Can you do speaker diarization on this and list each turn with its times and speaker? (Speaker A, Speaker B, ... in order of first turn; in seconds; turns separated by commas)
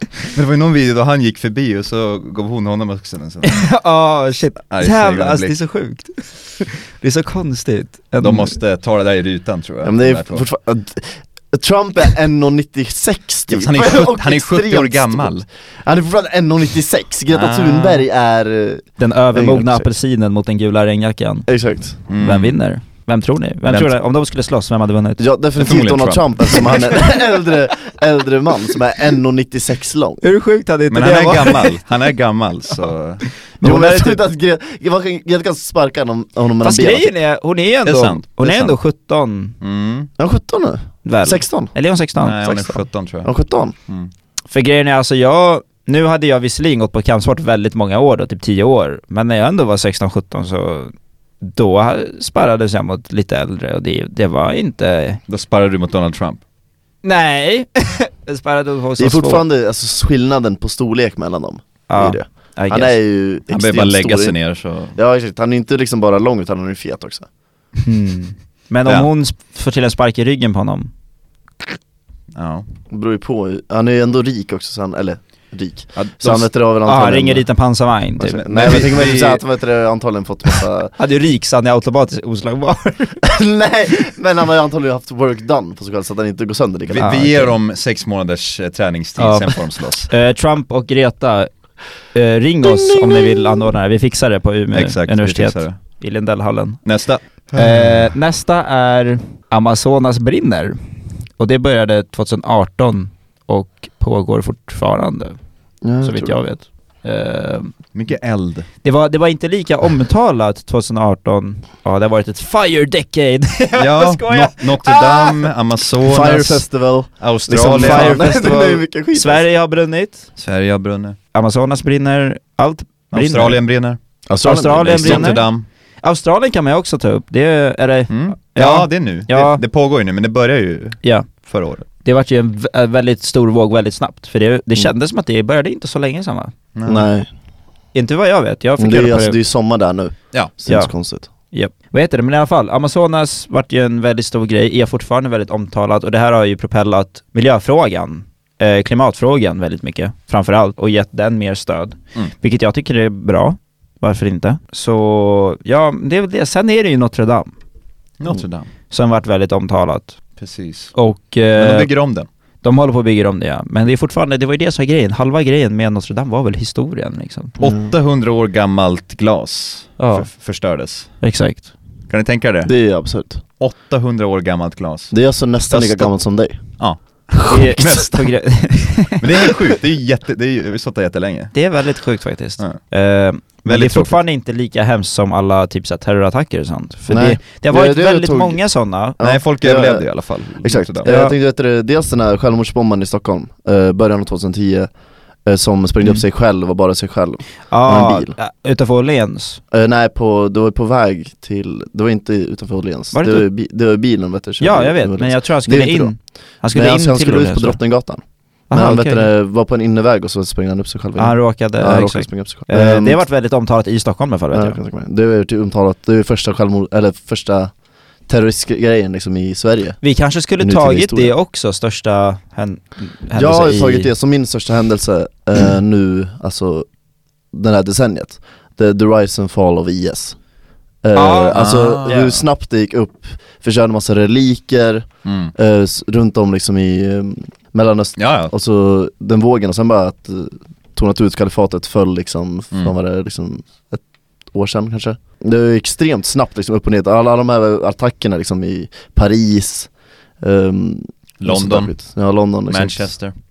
Speaker A: 0.3-3.7, Speaker B: 3.4-8.6, Speaker A: 4.7-5.6, Speaker A: 8.2-10.4, Speaker C: 9.8-19.9, Speaker A: 13.5-15.4, Speaker A: 17.3-18.0, Speaker B: 19.0-21.5, Speaker C: 21.5-22.0, Speaker A: 22.1-22.6, Speaker B: 22.2-25.2, Speaker A: 23.7-23.9, Speaker C: 25.2-30.2, Speaker A: 25.6-26.9, Speaker B: 30.2-31.8, Speaker A: 30.9-33.2, Speaker B: 33.6-34.2, Speaker C: 33.6-37.1, Speaker B: 36.6-39.5, Speaker A: 37.9-38.8, Speaker A: 39.6-40.1, Speaker C: 40.2-41.7, Speaker B: 41.0-42.7, Speaker A: 42.2-43.3, Speaker C: 43.2-43.8, Speaker B: 44.5-55.2, Speaker A: 55.3-56.4, Speaker B: 57.0-59.4, Speaker C: 59.0-64.4, Speaker B: 61.9-63.0, Speaker A: 63.5-65.0, Speaker C: 65.0-67.3, Speaker B: 67.9-70.9, Speaker A: 72.3-72.7, Speaker C: 72.9-77.5, Speaker A: 76.0-76.5, Speaker B: 76.9-78.4, Speaker C: 78.2-80.9, Speaker A: 78.3-79.4, Speaker B: 81.0-83.2, Speaker C: 83.2-87.5, Speaker A: 86.9-90.1, Speaker B: 87.0-87.3, Speaker B: 89.2-91.5, Speaker B: 92.1-96.8, Speaker C: 92.7-93.3, Speaker A: 94.7-95.8, Speaker A: 96.8-98.0, Speaker B: 97.5-100.8, Speaker B: 101.4-105.4, Speaker C: 105.8-106.4, Speaker B: 106.0-107.7, Speaker A: 107.9-108.7, Speaker B: 108.8-115.4, Speaker A: 113.8-116.7, Speaker C: 116.1-119.5, Speaker A: 117.2-118.3, Speaker B: 117.7-120.3, Speaker A: 120.4-121.2, Speaker B: 121.3-123.6, Speaker A: 123.1-124.0, Speaker C: 124.3-125.4, Speaker B: 124.4-125.5, Speaker A: 124.8-125.7, Speaker B: 126.0-129.6, Speaker A: 128.1-131.9, Speaker B: 131.0-131.3, Speaker B: 132.0-136.6, Speaker A: 136.8-137.1, Speaker C: 136.9-137.3, Speaker B: 137.9-139.4, Speaker C: 138.8-141.3, Speaker B: 141.5-157.5, Speaker A: 158.2-158.7, Speaker B: 158.9-160.2, Speaker A: 160.4-160.9, Speaker B: 160.9-161.9, Speaker A: 161.6-162.3, Speaker B: 162.6-167.6, Speaker C: 167.6-167.9, Speaker A: 167.6-171.1, Speaker B: 170.0-170.3, Speaker B: 171.2-171.7, Speaker A: 172.1-172.7, Speaker C: 172.7-173.4, Speaker A: 173.6-175.2, Speaker C: 175.1-176.6, Speaker A: 175.7-176.1, Speaker A: 176.8-178.2, Speaker B: 177.5-179.5, Speaker A: 179.2-181.6, Speaker B: 181.5-189.2, Speaker A: 183.7-184.2, Speaker C: 187.1-188.6, Speaker C: 189.2-190.1, Speaker A: 189.2-191.1, Speaker C: 190.6-194.9, Speaker B: 191.1-191.3, Speaker C: 195.5-198.3, Speaker B: 197.7-199.6, Speaker C: 199.7-206.1, Speaker B: 203.1-203.4, Speaker B: 204.6-207.8, Speaker C: 206.7-213.2, Speaker B: 208.7-209.3, Speaker B: 211.2-214.8, Speaker C: 214.5-217.7, Speaker C: 218.3-220.0, Speaker B: 220.0-224.1, Speaker C: 220.6-221.3, Speaker C: 223.3-226.9, Speaker C: 227.5-230.4, Speaker C: 231.0-253.1, Speaker B: 231.2-232.4, Speaker A: 231.5-232.3, Speaker A: 235.2-235.5, Speaker A: 238.2-238.5, Speaker A: 251.4-252.0, Speaker A: 252.7-253.3